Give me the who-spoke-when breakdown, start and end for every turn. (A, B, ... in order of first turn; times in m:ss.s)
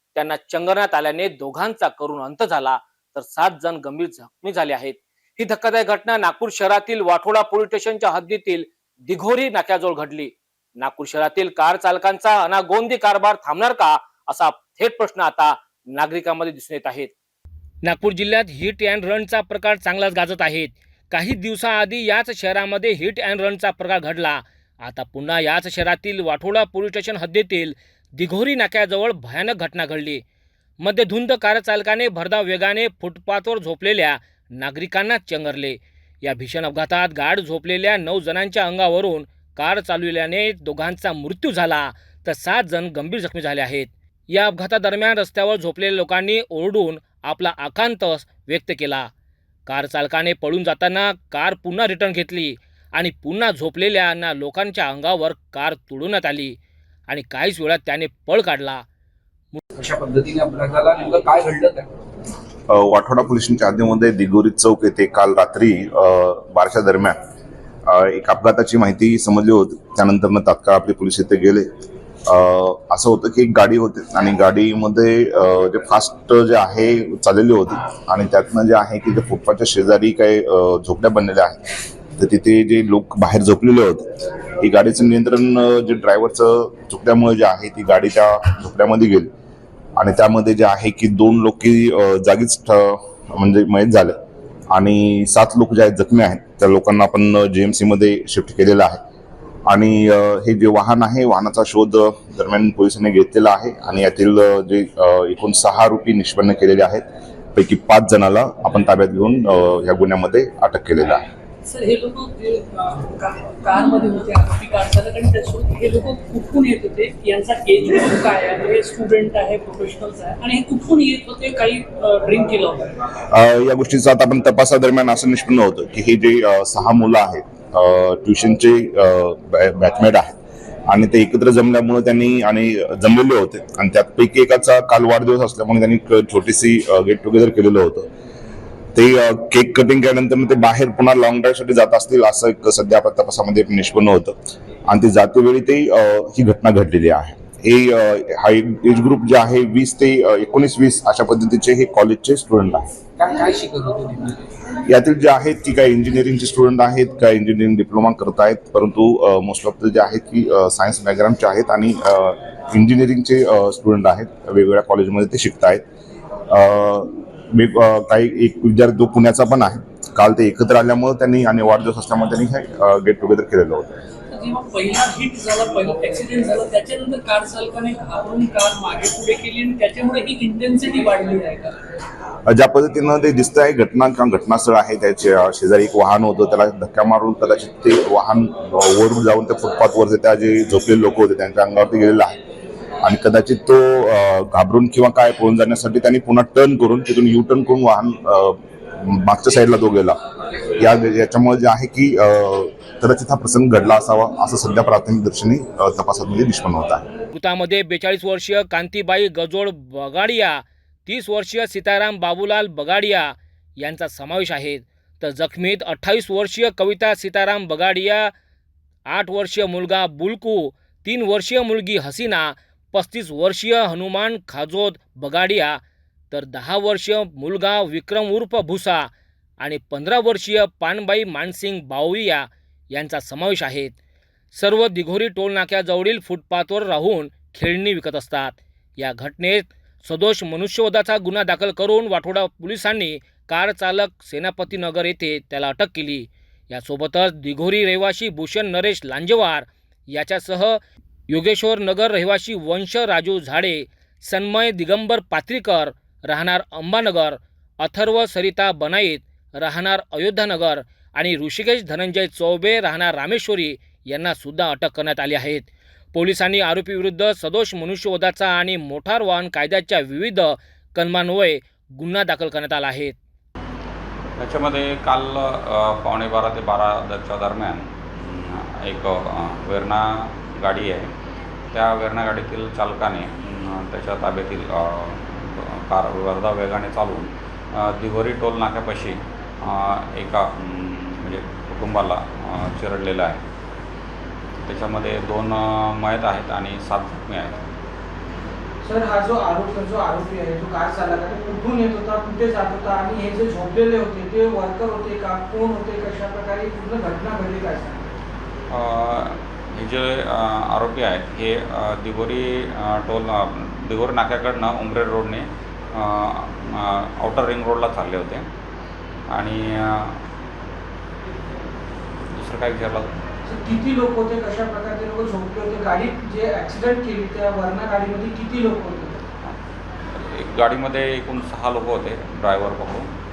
0:00.1-0:17.1 A
0:17.8-0:30.2 A
0:30.8-0:49.1 A
0:49.6-0:56.6 A
0:57.1-0:58.8 A
0:59.7-1:01.9 B
1:02.7-1:07.2 C
1:07.9-1:11.6 C
1:12.3-1:21.6 C
1:22.2-1:24.1 C
1:24.6-1:29.3 C
1:30.0-1:34.2 C
1:34.7-1:39.0 C
1:39.7-1:51.2 C
1:51.6-2:02.9 D
2:03.3-2:10.3 C
2:10.9-2:18.1 C
2:18.9-2:24.3 C
2:24.9-2:32.9 C
2:33.2-2:34.4 B
2:34.9-2:45.8 C
2:46.5-2:54.0 C
2:54.3-3:01.8 D
3:02.5-3:12.4 C
3:13.0-3:20.2 C
3:20.8-3:27.0 C
3:27.3-3:38.3 A
3:39.1-3:45.8 A
3:46.3-3:49.1 A
3:49.6-3:54.0 A
3:54.5-4:33.2 A
4:34.4-4:41.1 E
4:41.7-4:53.4 E
4:54.6-4:57.6 E
4:58.8-5:08.1 F
5:08.7-5:18.5 E
5:19.3-5:20.2 E
5:22.3-5:23.1 E
5:23.4-5:29.2 F
5:30.1-5:33.1 E